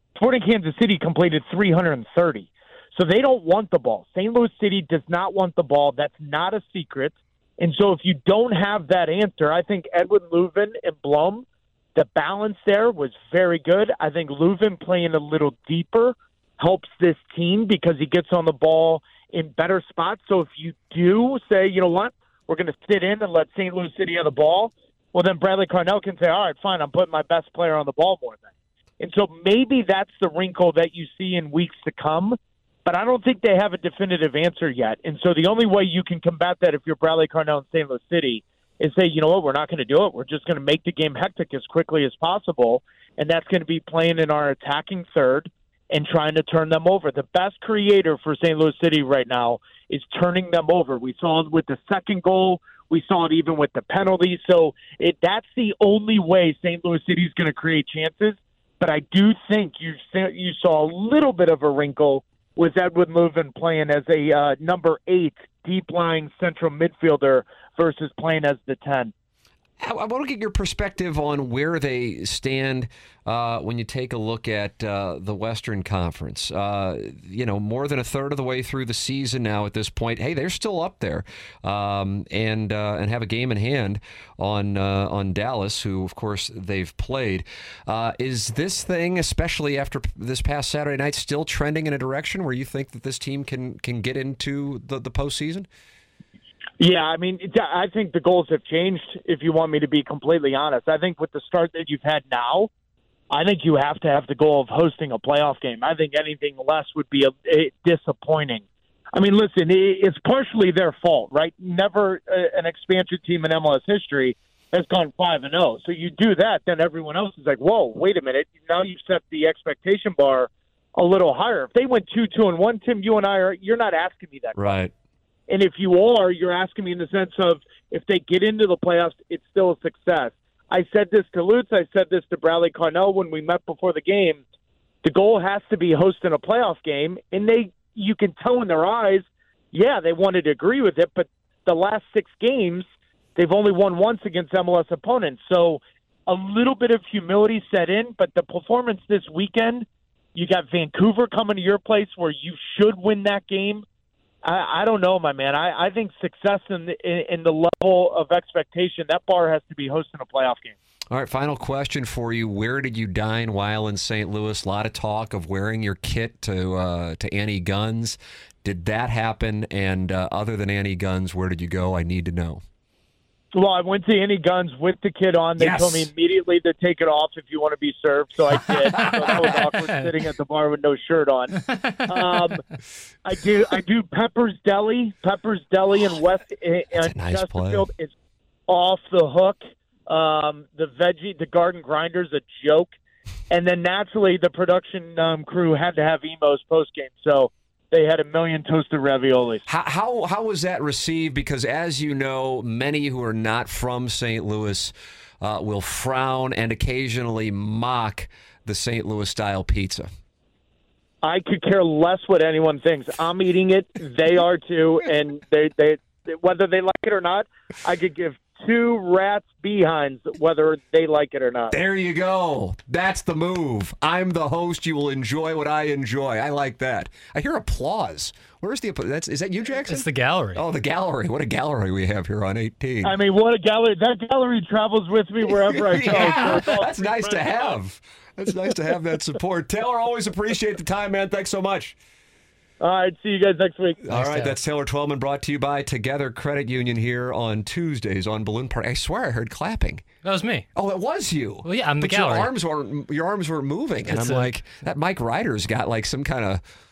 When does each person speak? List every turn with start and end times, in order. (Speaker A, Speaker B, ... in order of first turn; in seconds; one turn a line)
Speaker A: 0.1-69.1
Speaker B: 69.8-95.7
Speaker A: 96.8-102.7
Speaker A: 103.3-124.7
Speaker B: 124.5-124.9
Speaker A: 125.5-134.4
Speaker A: 135.0-142.8
Speaker A: 143.3-153.8
Speaker A: 154.4-160.8
Speaker B: 161.1-172.6
Speaker A: 173.5-182.6
Speaker B: 175.6-176.1
Speaker A: 183.2-188.1
Speaker B: 187.0-187.9
Speaker A: 188.7-192.9
Speaker A: 193.5-199.6
Speaker B: 199.7-210.1
Speaker A: 211.2-221.8
Speaker B: 221.7-233.2
Speaker C: 229.9-230.6
Speaker A: 233.0-237.8
Speaker B: 235.8-241.9
Speaker A: 242.8-244.0
Speaker B: 244.0-250.0
Speaker C: 244.1-244.5
Speaker C: 250.2-250.7
Speaker B: 250.7-256.6
Speaker C: 251.6-252.5
Speaker C: 254.1-254.5